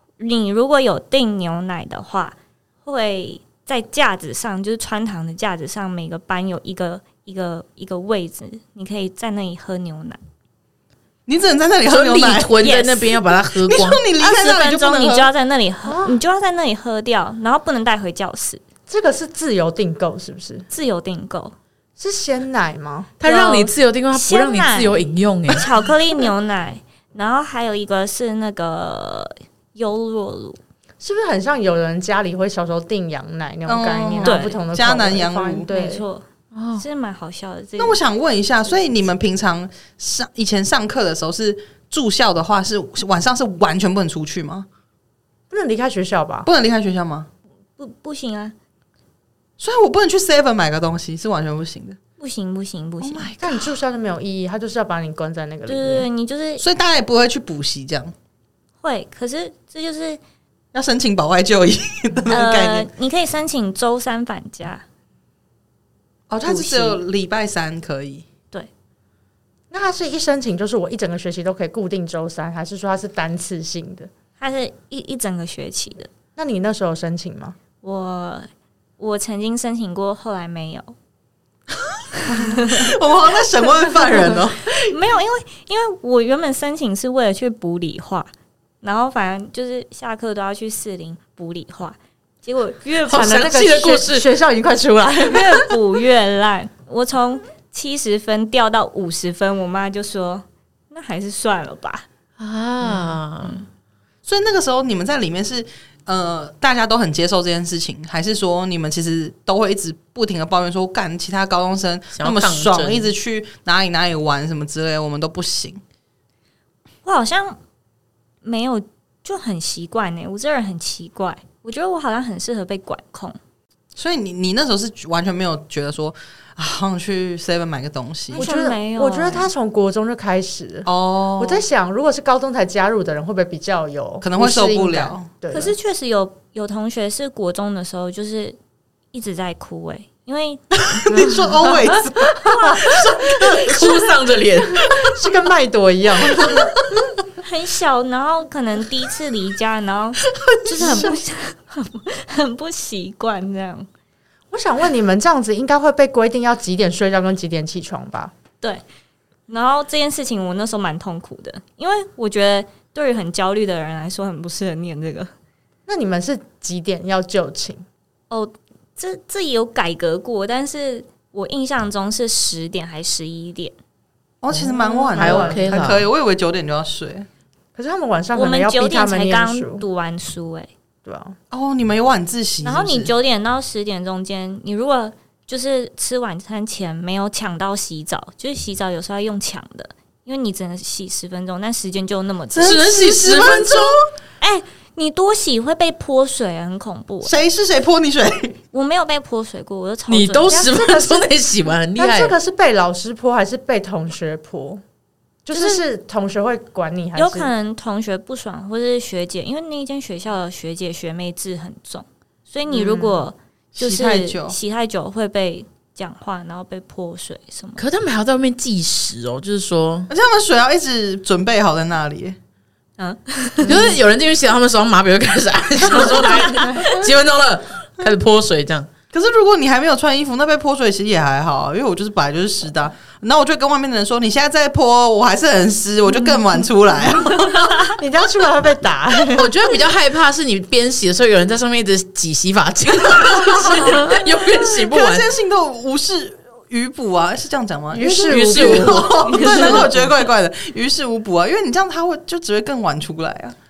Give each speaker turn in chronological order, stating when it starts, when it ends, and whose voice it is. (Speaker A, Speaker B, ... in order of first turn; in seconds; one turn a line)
Speaker A: 0.2-10.2
Speaker B: 11.3-12.6
Speaker C: 11.9-14.0
Speaker A: 12.5-13.1
Speaker B: 13.5-15.3
Speaker A: 14.2-18.6
Speaker D: 15.8-16.2
Speaker D: 18.9-20.6
Speaker A: 20.7-21.5
Speaker D: 22.0-23.1
Speaker C: 23.2-25.6
Speaker A: 23.2-30.6
Speaker D: 31.0-36.0
Speaker B: 33.6-35.7
Speaker A: 34.2-34.6
Speaker A: 35.7-36.2
Speaker C: 36.5-36.8
Speaker A: 36.8-38.0
Speaker B: 37.8-44.7
Speaker D: 45.5-46.5
Speaker B: 46.5-47.3
Speaker A: 47.8-48.5
Speaker B: 49.6-52.0
Speaker A: 52.2-53.3
Speaker B: 53.0-53.8
Speaker D: 53.4-56.0
Speaker A: 55.7-56.6
Speaker B: 56.6-58.1
Speaker A: 58.8-60.2
Speaker B: 60.7-62.9
Speaker A: 62.3-64.8
Speaker B: 66.3-68.2
Speaker A: 66.5-67.0
Speaker D: 69.7-74.1
Speaker A: 74.4-76.1
Speaker D: 76.3-77.5
Speaker A: 77.8-78.5
Speaker A: 79.0-80.9
Speaker A: 82.2-82.9
Speaker B: 82.3-84.8
Speaker A: 84.0-88.3
Speaker A: 88.8-93.4
Speaker C: 93.1-94.3
Speaker D: 93.1-95.6
Speaker A: 95.3-102.0
Speaker C: 102.4-103.6
Speaker B: 104.2-115.8
Speaker C: 112.1-113.1
Speaker A: 117.0-117.6
Speaker A: 118.4-123.4
Speaker B: 123.9-128.5
Speaker D: 128.3-135.7
Speaker A: 128.3-129.5
Speaker B: 130.8-131.6
Speaker B: 134.2-135.3
Speaker A: 135.5-138.6
Speaker A: 139.1-142.9
Speaker B: 140.8-143.9
Speaker C: 143.5-144.9
Speaker D: 144.8-146.7
Speaker A: 147.4-153.9
Speaker B: 150.6-151.1
Speaker D: 150.8-151.2
Speaker D: 154.5-158.3
Speaker A: 159.5-165.3
Speaker D: 165.9-167.8
Speaker A: 168.3-173.7
Speaker B: 174.4-177.3
Speaker D: 174.5-175.8
Speaker C: 175.1-176.1
Speaker D: 177.8-179.8
Speaker A: 178.3-180.7
Speaker D: 181.0-181.3
Speaker B: 181.5-183.1
Speaker A: 182.6-192.8
Speaker B: 192.5-194.0
Speaker C: 192.6-194.0
Speaker A: 194.4-197.3
Speaker B: 197.2-198.6
Speaker A: 198.7-200.6
Speaker C: 200.1-202.3
Speaker D: 200.5-201.3
Speaker D: 201.9-204.8
Speaker D: 205.4-207.5
Speaker A: 205.5-205.8
Speaker A: 207.1-217.8
Speaker D: 212.7-213.2
Speaker B: 213.7-214.6
Speaker C: 217.8-220.1
Speaker B: 220.1-222.4
Speaker A: 223.0-223.8
Speaker C: 223.6-228.9
Speaker A: 225.9-226.9
Speaker B: 229.1-237.9
Speaker D: 237.8-239.5
Speaker C: 239.3-245.3
Speaker B: 243.3-244.0
Speaker B: 244.7-253.6
Speaker D: 247.9-250.0
Speaker C: 248.2-249.9
Speaker A: 249.3-249.8